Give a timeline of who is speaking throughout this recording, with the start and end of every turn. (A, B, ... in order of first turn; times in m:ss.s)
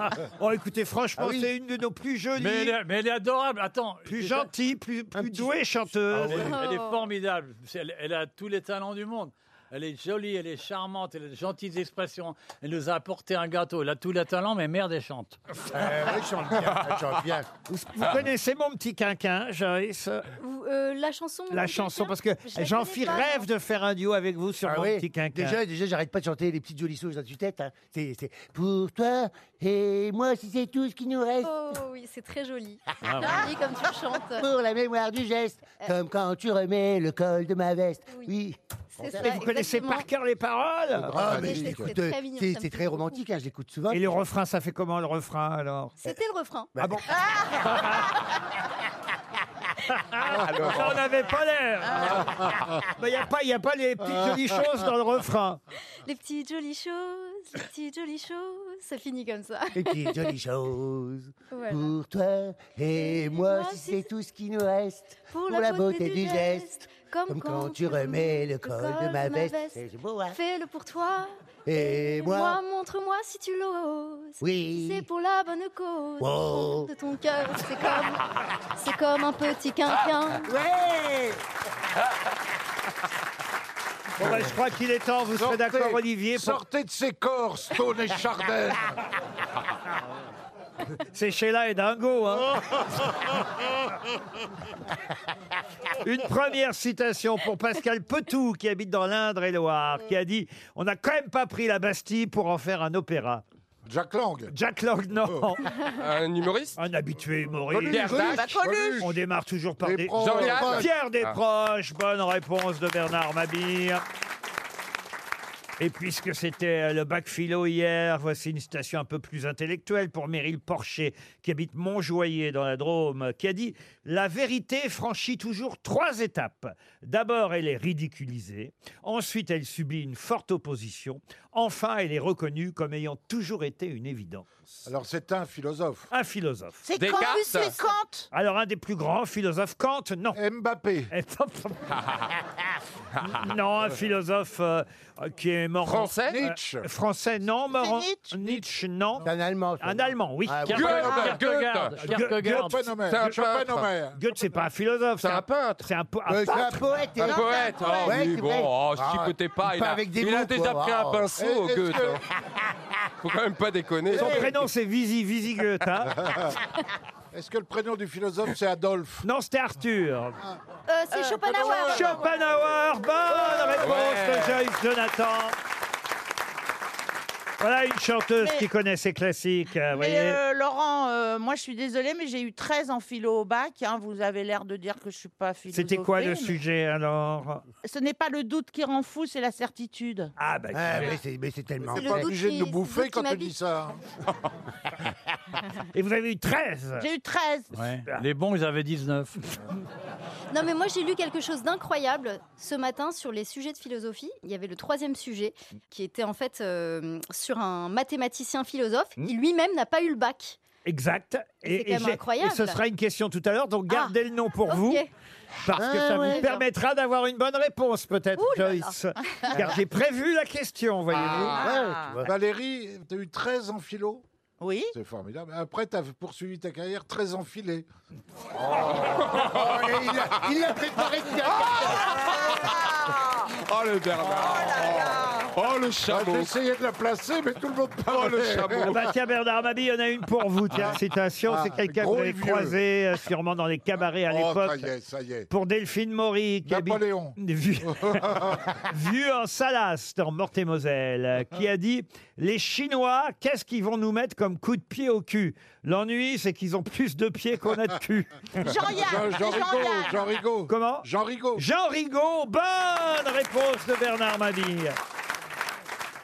0:00.4-0:02.7 A
0:01.2-0:01.5 B
0:02.4-0:04.5 C
0:04.0-0:06.5 A
0:05.1-0:05.5 B
0:06.1-0:06.7 B
0:06.2-0:15.4 C
0:06.4-0:07.1 D
0:15.7-0:17.5 B
0:17.7-0:20.3 A
0:20.4-0:23.5 D
0:21.5-0:25.6 A
0:24.6-0:31.5 B
0:31.4-0:34.5 D
0:33.0-0:33.4 C
0:34.3-0:39.3 B
0:39.0-0:40.1 D
0:39.2-0:41.1 A
0:41.1-0:44.1 B
0:41.1-0:41.9 E
0:41.3-0:43.2 D
0:43.9-0:45.9 A
0:46.0-0:46.7 D
0:46.7-0:47.0 B
0:46.8-0:47.0 A
0:47.6-0:48.1 A
0:50.1-0:55.6 A
0:50.3-0:51.0 F
0:51.8-0:52.2 G
0:56.0-1:00.4 D
0:59.7-1:10.4 B
1:01.5-1:01.8 D
1:03.0-1:04.1 D
1:05.3-1:20.5 D
1:11.6-1:12.6 B
1:14.4-1:15.0 B
1:16.2-1:16.9 B
1:20.4-1:21.4 B
1:24.2-1:26.6 A
1:24.2-1:24.5 E
1:25.4-1:28.8 E
1:31.1-1:32.5 A
1:36.0-1:43.4 A
1:43.8-1:44.5 E
1:44.5-1:45.7 A
1:45.9-1:46.8 F
1:46.8-1:54.0 A
1:47.7-1:48.5 F
1:47.8-1:49.2 E
1:48.1-1:49.0 G
1:49.8-1:50.9 E
1:50.2-1:51.4 F
1:55.8-2:14.5 A
2:14.8-2:16.1 E
2:16.1-2:16.8 A
2:16.8-2:18.3 G
2:17.0-2:17.8 F
2:17.1-2:17.7 D
2:18.3-2:20.4 A
2:20.3-2:21.1 E
2:21.1-2:21.9 A
2:23.2-2:29.2 A
2:25.8-2:26.4 F
2:26.3-2:26.9 E
2:27.7-2:28.3 G
2:28.4-2:28.6 E
2:29.2-2:31.3 B
2:29.8-2:31.3 A
2:30.6-2:33.0 C
2:30.7-2:32.1 F
2:32.0-2:32.8 A
2:32.4-2:34.2 E
2:33.1-2:33.9 F
2:34.1-2:36.9 A
2:35.2-2:35.8 F
2:36.3-2:41.3 B
2:37.2-2:42.2 F
2:37.2-2:38.2 D
2:41.4-2:42.2 E
2:43.2-2:44.5 F
2:44.1-2:46.3 A
2:44.2-2:44.4 E
2:46.2-2:46.6 E
2:47.3-2:49.2 E
2:49.2-2:50.4 A
2:50.9-2:52.3 D
2:51.1-2:52.0 G
2:51.4-2:52.2 E
2:51.8-2:55.6 A
2:53.8-2:54.6 F
2:57.6-3:00.4 A
2:58.4-2:58.6 G
2:59.9-3:06.5 G
3:05.7-3:07.6 A
3:07.8-3:10.3 G
3:10.4-3:11.2 A
3:10.7-3:12.3 B
3:11.9-3:13.5 D
3:11.9-3:14.0 E
3:15.9-3:17.1 A
3:17.0-3:17.7 G
3:17.7-3:19.4 C
3:20.5-3:30.6 D
3:30.8-3:35.0 A
3:31.6-3:32.8 D
3:33.9-3:34.1 D
3:34.7-3:35.1 D
3:35.6-3:41.6 A
3:35.7-3:36.5 B
3:36.2-3:36.6 D
3:38.4-3:39.5 D
3:41.2-3:41.7 F
3:41.5-3:42.2 G
3:41.6-3:42.3 B
3:42.2-3:44.2 E
3:44.6-3:44.9 G
3:44.9-3:47.8 E
3:48.6-3:48.9 E
3:48.7-3:49.8 F
3:49.2-3:52.2 B
3:51.4-3:52.8 F
3:51.9-3:53.5 G
3:53.5-3:56.5 F
3:54.3-3:55.5 G
3:56.1-3:58.9 E
3:58.1-3:59.0 F
3:58.9-4:04.9 A
4:00.7-4:02.8 E
4:04.3-4:05.5 E
4:05.5-4:18.7 A
4:06.6-4:08.7 E
4:18.6-4:20.4 G
4:18.9-4:21.6 E
4:20.7-4:25.0 A